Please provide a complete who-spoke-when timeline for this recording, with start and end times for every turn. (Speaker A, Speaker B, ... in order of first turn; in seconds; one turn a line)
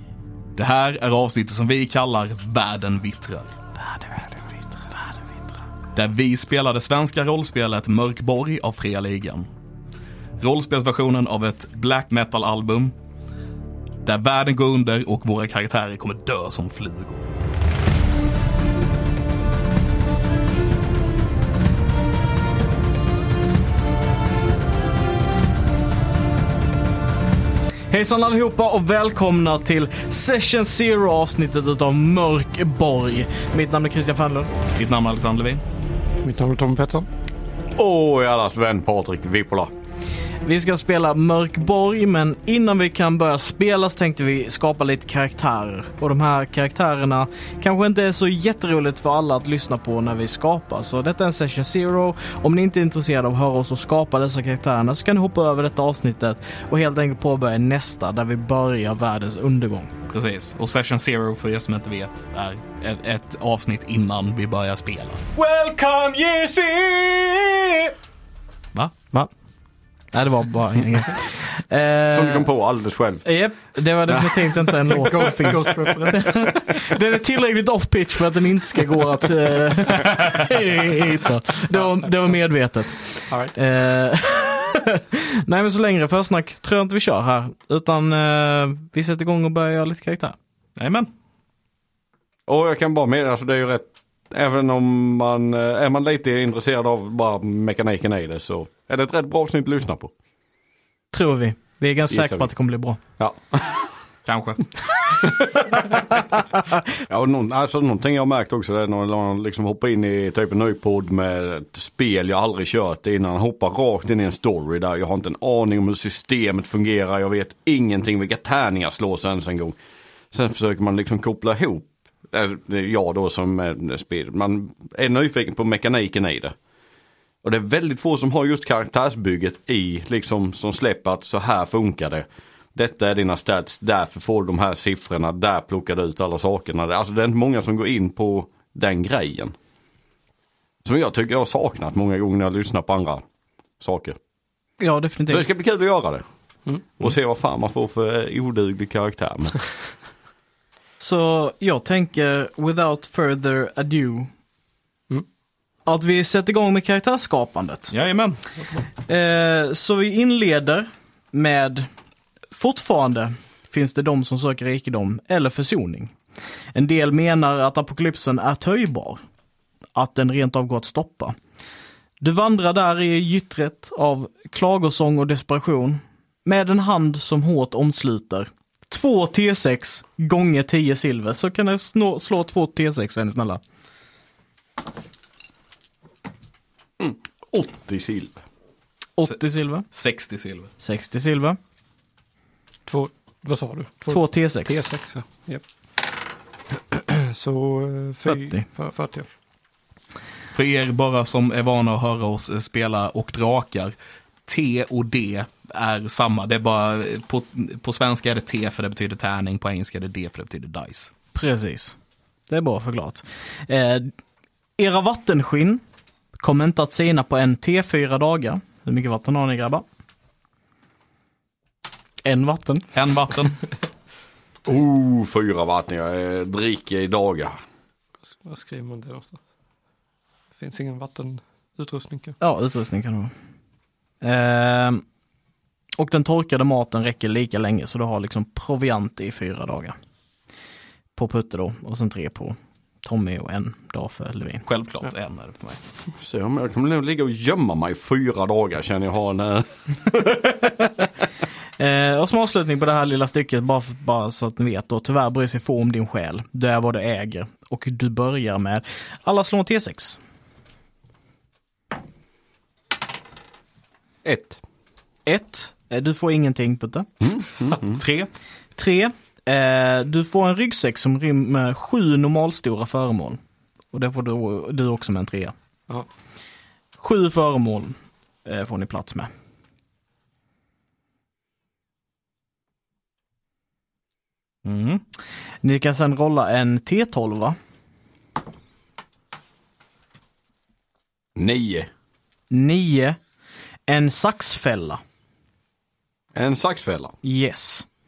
Speaker A: 0.6-3.6
Speaker B: 4.0-4.4
Speaker A: 5.9-9.5
Speaker A: 10.4-12.9
Speaker A: 14.0-17.2
Speaker B: 27.9-34.5
Speaker A: 34.8-35.6
Speaker C: 36.2-37.1
Speaker D: 37.8-39.7
Speaker B: 40.4-59.9
Speaker A: 60.1-65.2
Speaker B: 65.3-67.9
Speaker B: 70.1-72.5
Speaker D: 72.1-73.2
Speaker B: 73.2-90.4
Speaker A: 74.1-76.1
Speaker C: 75.0-76.6
Speaker A: 90.8-91.1
Speaker D: 92.5-100.1
Speaker B: 101.1-103.0
Speaker D: 102.1-102.5
Speaker D: 103.2-103.7
Speaker A: 104.3-104.7
Speaker D: 107.0-119.8
Speaker D: 120.3-126.5
Speaker D: 127.4-139.6
Speaker D: 140.8-143.2
Speaker D: 143.8-144.2
Speaker B: 144.8-145.5
Speaker D: 145.3-146.2
Speaker D: 147.0-149.6
Speaker B: 151.0-154.3
Speaker B: 155.9-157.9
Speaker A: 157.9-158.4
Speaker B: 159.1-161.9
Speaker B: 162.5-166.2
Speaker B: 166.8-169.2
Speaker B: 169.9-171.3
Speaker B: 172.2-183.6
Speaker D: 187.0-188.4
Speaker B: 189.2-189.9
Speaker A: 189.9-190.7
Speaker B: 190.8-191.6
Speaker C: 192.9-195.6
Speaker B: 194.1-194.8
Speaker C: 196.9-199.3
Speaker B: 198.3-198.7
Speaker A: 200.5-203.9
Speaker A: 204.5-211.1
Speaker B: 211.3-212.0
Speaker B: 212.5-214.1
Speaker B: 214.8-215.8
Speaker B: 216.4-219.8
Speaker B: 222.2-222.9
Speaker A: 222.9-223.6
Speaker D: 224.7-227.6
Speaker C: 228.4-229.4
Speaker C: 230.6-232.4
Speaker B: 232.4-233.3
Speaker B: 234.2-235.0
Speaker B: 236.0-240.0
Speaker B: 241.2-244.7
Speaker A: 244.7-245.8
Speaker D: 246.2-250.4
Speaker B: 251.8-260.2
Speaker D: 264.2-264.6
Speaker B: 265.3-267.1
Speaker D: 267.2-268.0
Speaker A: 268.0-268.3
Speaker B: 268.8-273.4
Speaker B: 273.9-275.5
Speaker B: 277.0-279.3
Speaker A: 284.6-285.0
Speaker B: 285.6-287.6
Speaker D: 291.4-291.9
Speaker B: 292.5-293.2
Speaker B: 293.9-295.0
Speaker D: 296.3-297.1
Speaker B: 297.2-297.9